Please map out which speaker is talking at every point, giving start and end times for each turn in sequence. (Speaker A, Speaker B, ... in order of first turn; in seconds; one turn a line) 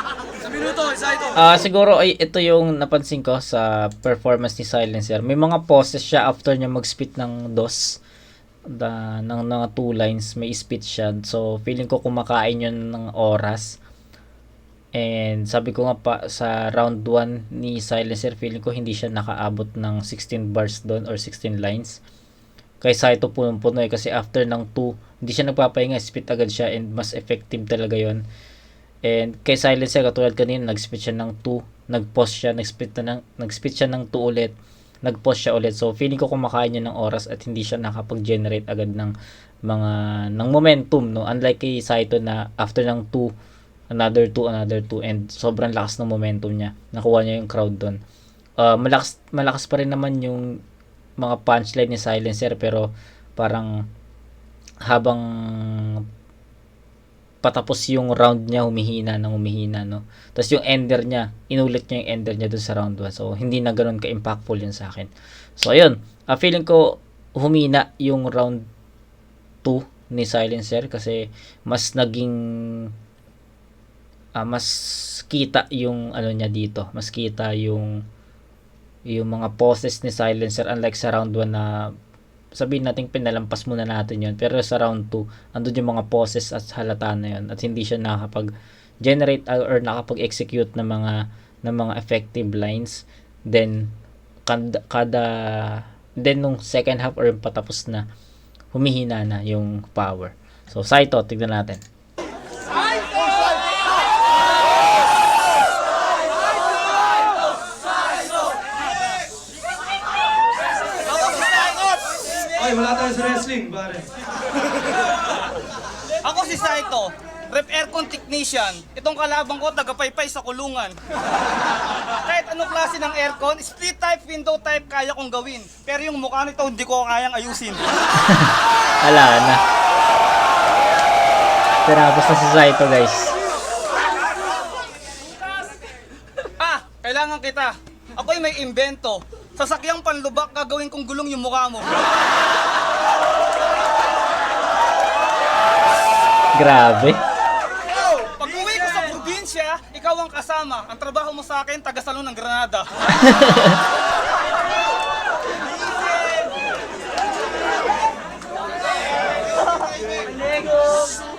Speaker A: 0.4-1.4
Speaker B: 1.4-8.0
Speaker B: 8.7-13.8
Speaker B: 14.9-22.0
Speaker B: 22.8-28.2
Speaker B: 29.0-39.1
Speaker B: 39.6-43.3
Speaker B: 43.9-48.0
Speaker B: 48.6-50.6
Speaker B: 51.2-53.8
Speaker B: 54.9-56.0
Speaker B: 57.4-68.6
Speaker B: 69.6-72.9
Speaker B: 74.4-78.0
Speaker B: 79.1-81.8
Speaker B: 82.5-88.5
Speaker B: 89.0-93.9
Speaker B: 94.5-98.0
Speaker B: 98.7-101.8
Speaker C: 111.1-112.0
Speaker A: 112.6-114.1
Speaker C: 116.2-121.0
Speaker C: 122.2-127.8
Speaker B: 128.2-129.6
Speaker B: 131.8-133.3
Speaker C: 136.6-141.9
Speaker B: 146.6-147.2
Speaker C: 148.2-152.9
Speaker B: 153.2-153.8